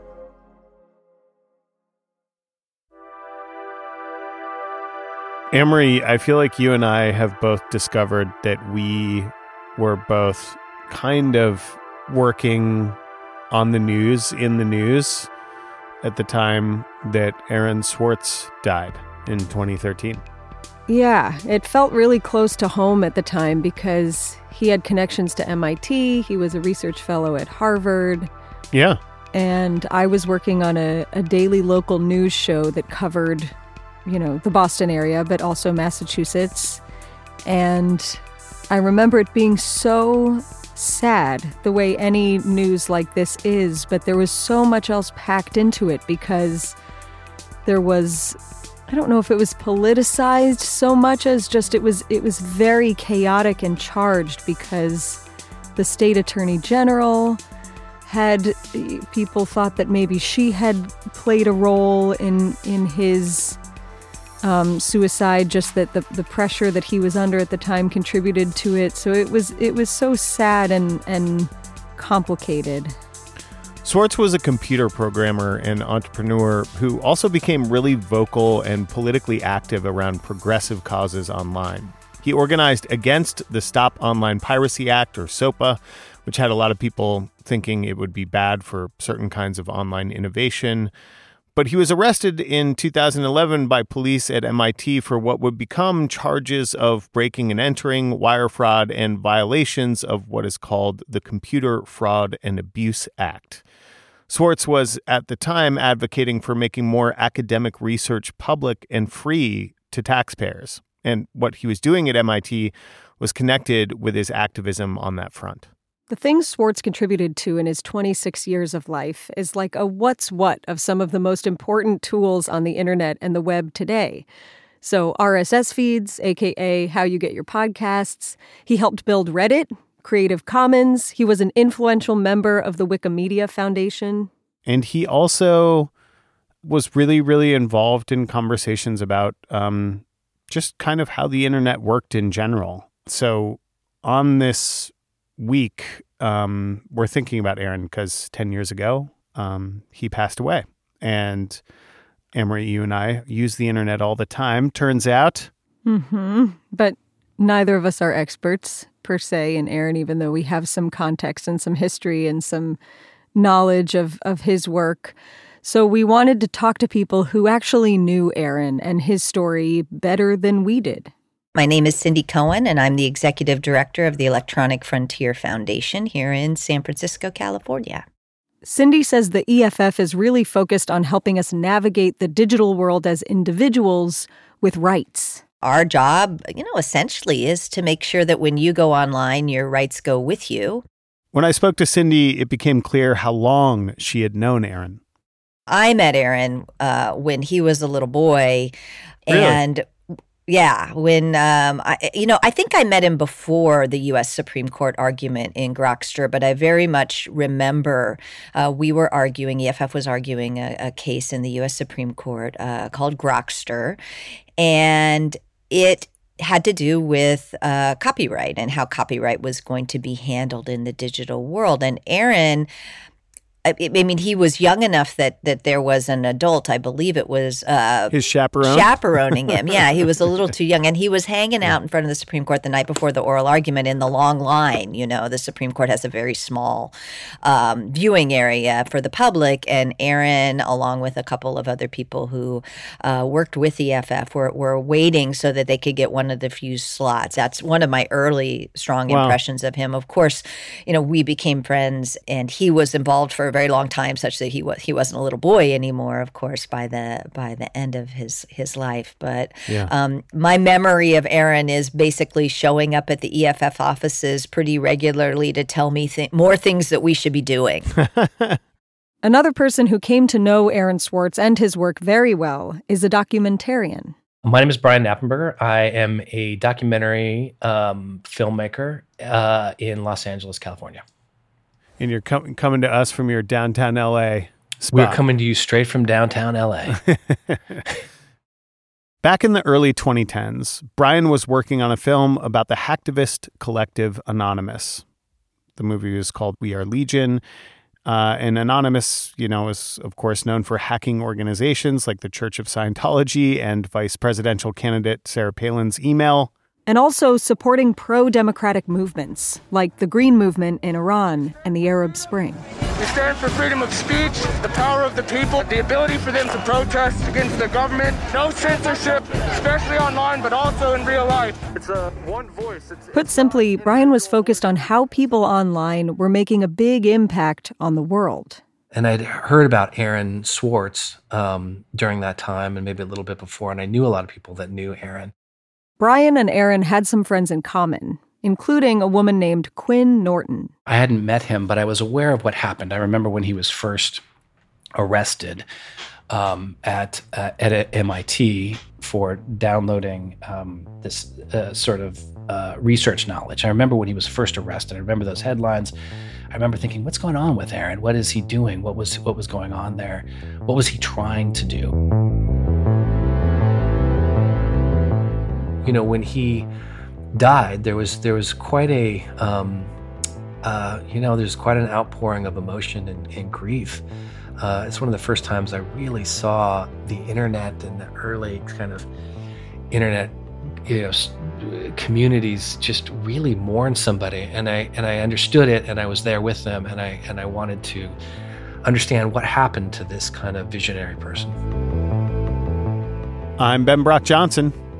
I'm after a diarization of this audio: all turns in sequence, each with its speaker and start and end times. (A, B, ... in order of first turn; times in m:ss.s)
0:05.5-0:13.0 A
0:13.5-0:15.3 A
0:16.0-0:20.2 A
0:20.9-0:28.3 B
0:28.7-0:29.0 A
0:29.3-0:33.5 B
0:34.0-0:36.8 B
0:37.4-0:46.8 B
0:47.6-0:55.2 B
0:55.8-0:57.4 B
0:58.0-1:03.6 B
1:04.4-1:12.9 B
1:13.8-1:30.9 A
1:31.5-1:43.6 A
1:44.3-1:55.7 A
1:56.1-2:04.2 B
2:04.8-2:14.3 B
2:14.6-2:15.9 A
2:16.6-2:31.6 A
2:32.3-2:35.5 A
2:35.8-2:42.8 B
2:43.3-2:51.1 B
2:51.5-2:58.0 C
2:58.6-3:05.4 B
3:05.6-3:10.8 C
3:11.3-3:15.0 A
3:15.7-3:18.7 C
3:19.2-3:19.8 C
3:19.3-3:19.6 A
3:20.5-3:34.0 C
3:34.6-3:42.7 C
3:43.6-3:56.9 C
3:48.1-3:49.8 A
3:57.4-4:27.9 C
4:09.1-4:09.4 A
4:28.1-4:28.6 A
4:29.2-4:34.1 B
4:34.4-4:41.0 D
4:42.0-4:45.2 A
4:44.9-4:47.0 D
4:49.2-4:55.0 A
4:55.8-4:57.4 A
4:58.0-5:06.5 A
5:06.9-5:12.6 B
5:13.0-5:21.9 E
5:23.1-5:28.6 B
5:28.9-5:35.3 D
5:36.0-5:40.7 B
5:40.8-5:44.2 D
5:45.0-5:45.6 D
5:46.3-5:55.9 D
5:56.5-6:01.9 D
6:05.8-6:06.7 D
6:07.3-6:09.9 D
6:10.6-6:14.0 D
6:14.6-6:19.1 D
6:19.9-6:28.2 D
6:28.8-6:31.6 D
6:33.6-6:34.7 A